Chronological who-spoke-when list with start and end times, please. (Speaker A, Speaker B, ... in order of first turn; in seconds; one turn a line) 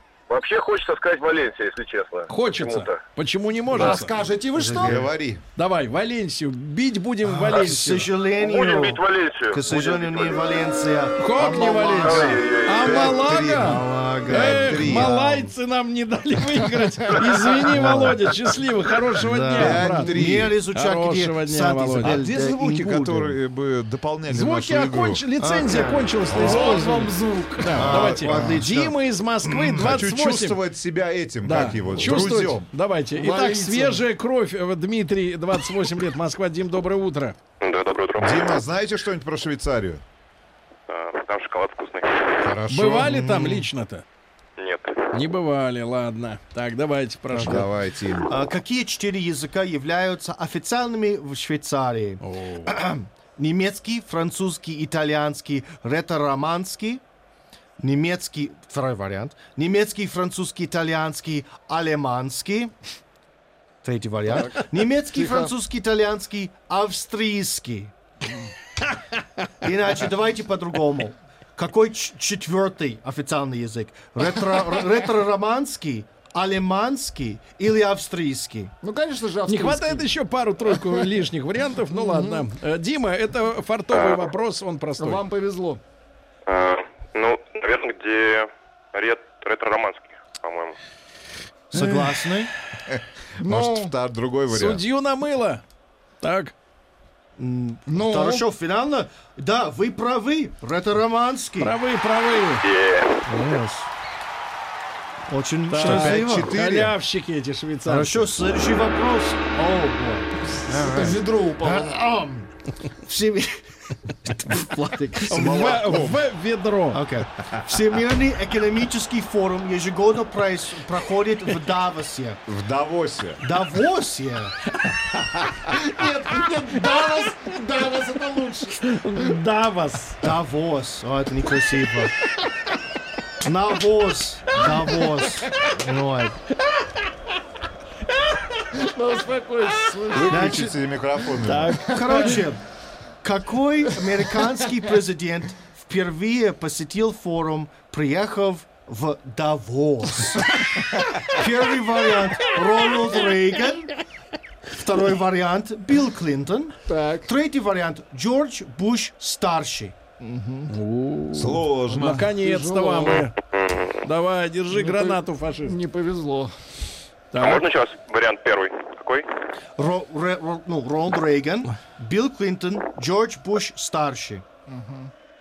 Speaker A: 0.3-3.0
Speaker B: 2.3-4.2
Speaker C: 3.7-5.0
Speaker D: 4.5-5.0
Speaker E: 4.8-5.4
Speaker B: 5.5-8.1
Speaker D: 7.2-12.4
Speaker A: 8.4-10.6
Speaker B: 11.2-20.2
Speaker A: 12.0-13.2
Speaker E: 12.8-15.1
Speaker D: 13.5-15.5
Speaker D: 17.6-18.3
Speaker D: 19.2-23.4
Speaker E: 19.5-20.5
Speaker B: 20.7-22.1
Speaker E: 22.0-25.2
Speaker B: 24.3-30.6
Speaker D: 25.4-26.5
Speaker E: 26.3-26.8
Speaker C: 26.3-27.8
Speaker D: 27.8-30.0
Speaker E: 27.8-28.6
Speaker E: 29.8-32.7
Speaker B: 31.4-37.4
Speaker C: 33.1-34.0
Speaker A: 37.6-38.6
Speaker E: 38.2-40.0
Speaker A: 40.9-42.5
Speaker E: 42.4-43.2
Speaker B: 42.7-44.0
Speaker D: 42.9-43.7
Speaker A: 44.6-45.1
Speaker B: 45.1-47.7
Speaker E: 47.3-48.3
Speaker D: 48.3-57.0
Speaker B: 52.2-52.7
Speaker D: 57.8-62.7
Speaker D: 63.8-67.9
Speaker C: 64.3-65.5
Speaker D: 69.6-78.7
Speaker C: 78.8-80.1
Speaker B: 79.5-85.2
Speaker C: 80.7-81.1
Speaker C: 81.9-82.5
Speaker A: 83.9-84.3
Speaker C: 85.0-85.8
Speaker A: 86.5-90.8
Speaker D: 91.7-92.5
Speaker E: 92.8-94.8
Speaker C: 93.4-93.9
Speaker B: 94.5-95.6
Speaker B: 96.2-96.5
Speaker D: 97.4-101.7
Speaker C: 97.9-98.5
Speaker B: 101.6-102.6
Speaker A: 102.6-103.2
Speaker D: 103.3-103.9
Speaker D: 105.3-106.5
Speaker B: 105.7-108.2
Speaker E: 105.8-106.9
Speaker D: 107.8-112.5
Speaker C: 110.7-112.0
Speaker D: 113.0-115.7
Speaker B: 115.3-117.0
Speaker E: 115.3-116.2
Speaker D: 116.9-122.4
Speaker E: 122.5-123.4
Speaker D: 123.4-124.5
Speaker B: 124.8-125.6
Speaker C: 125.7-129.3
Speaker B: 128.8-130.2
Speaker D: 130.2-132.1
Speaker D: 133.4-136.4
Speaker C: 138.7-140.6
Speaker E: 140.1-141.8
Speaker D: 140.2-140.7
Speaker B: 141.4-142.4
Speaker D: 141.9-142.6
Speaker D: 143.2-150.7
Speaker D: 151.2-153.9
Speaker D: 154.7-160.0
Speaker C: 156.9-157.3
Speaker C: 160.2-160.7
Speaker B: 160.7-163.3
Speaker E: 161.3-162.3
Speaker C: 161.9-163.3
Speaker A: 163.4-164.0
Speaker B: 164.0-165.7
Speaker C: 164.7-166.5
Speaker B: 167.3-167.6
Speaker A: 167.4-169.3
Speaker D: 169.8-174.4
Speaker C: 174.7-175.1